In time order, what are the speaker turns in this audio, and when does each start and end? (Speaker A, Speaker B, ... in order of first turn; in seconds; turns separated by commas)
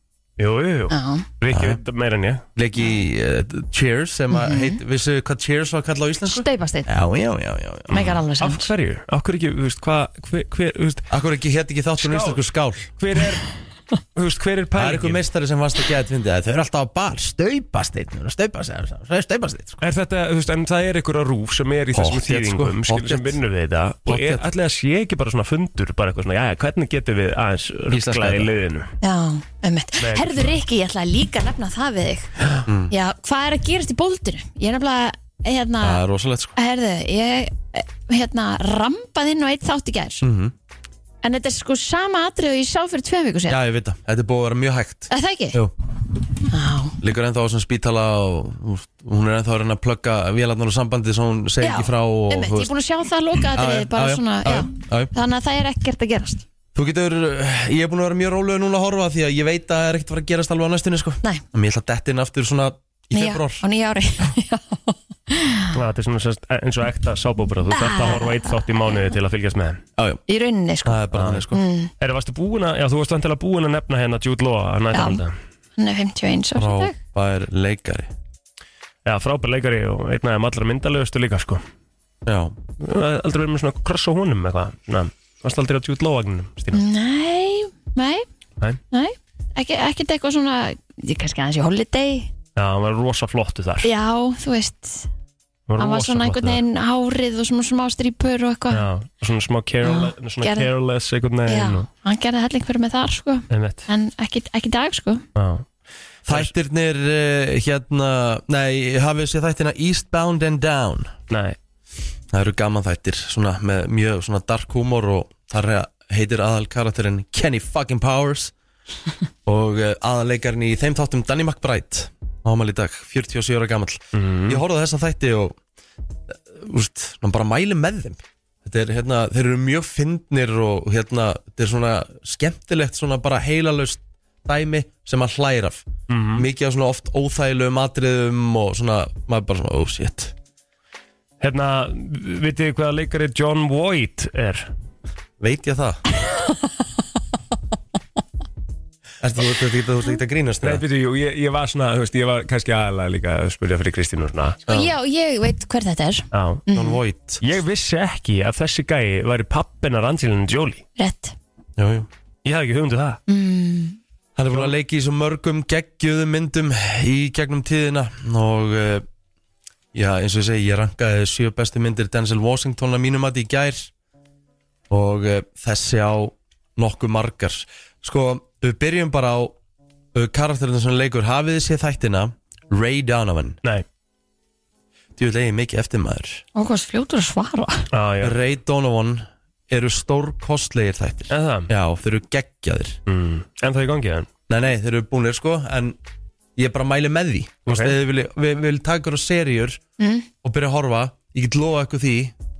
Speaker A: 0.4-2.4, Speaker B: 0.9-1.3, Speaker C: 1.5-1.8, Speaker C: 2.5-8.1, Speaker B: 4.3-4.8, Speaker B: 6.3-6.9, Speaker B: 7.9-8.7, Speaker A: 7.9-11.1, Speaker C: 11.1-12.9, Speaker A: 12.0-12.4, Speaker A: 13.0-13.5, Speaker A: 14.1-15.2, Speaker C: 14.8-19.8, Speaker A: 19.8-28.9, Speaker C: 21.9-23.4, Speaker C: 24.1-24.4, Speaker C: 27.9-28.5, Speaker B: 29.0-32.3, Speaker A: 30.0-30.5, Speaker C: 32.6-32.9, Speaker B: 32.9-36.0, Speaker C: 35.8-36.5, Speaker B: 36.5-40.2, Speaker C: 40.2-40.5, Speaker B: 41.2-43.6, Speaker C: 43.5-45.7, Speaker B: 45.1-45.6, Speaker B: 46.5-47.0, Speaker C: 47.0-52.7, Speaker B: 51.6-56.4, Speaker C: 53.5-55.1, Speaker C: 56.7-63.6, Speaker B: 63.1-65.8, Speaker A: 65.7-69.8, Speaker B: 67.7-68.9, Speaker B: 70.3-71.9, Speaker C: 70.8-71.6, Speaker A: 71.1-71.4, Speaker A: 72.0-75.3, Speaker B: 74.9-75.2, Speaker B: 75.8-77.0, Speaker C: 76.5-78.1, Speaker A: 79.0-81.6, Speaker C: 82.2-82.5, Speaker A: 82.8-86.8, Speaker B: 86.7-88.2, Speaker B: 88.9-92.3, Speaker A: 92.5-93.9, Speaker B: 93.8-95.1, Speaker A: 95.7-96.6, Speaker B: 95.8-98.8, Speaker A: 98.7-101.9, Speaker B: 99.8-100.7, Speaker B: 101.5-105.2, Speaker A: 103.5-103.9, Speaker A: 105.3-105.6, Speaker C: 106.3-111.1, Speaker A: 111.3-111.5, Speaker C: 112.3-118.5, Speaker C: 119.5-125.6, Speaker A: 124.1-124.6, Speaker C: 126.3-140.3, Speaker A: 136.1-136.4, Speaker A: 141.4-144.7, Speaker C: 145.4-146.0, Speaker B: 146.2-146.6, Speaker C: 149.2-150.8, Speaker A: 150.6-154.6, Speaker C: 154.7-154.9, Speaker B: 154.7-157.0, Speaker A: 156.3-156.6, Speaker C: 156.7-157.4, Speaker A: 157.4-160.8, Speaker B: 161.0-161.3, Speaker C: 161.8-162.1, Speaker A: 162.4-163.2, Speaker B: 163.3-164.0, Speaker C: 164.3-169.0, Speaker C: 169.9-173.9, Speaker C: 174.9-179.5, Speaker C: 180.1-183.6, Speaker C: 185.2-186.4, Speaker B: 186.5-187.9, Speaker A: 187.9-188.3, Speaker C: 188.2-193.0, Speaker A: 191.3-191.7, Speaker A: 193.1-194.3, Speaker C: 194.5-196.0, Speaker C: 196.6-199.8, Speaker A: 197.7-197.9, Speaker B: 200.0-200.2, Speaker C: 200.4-202.3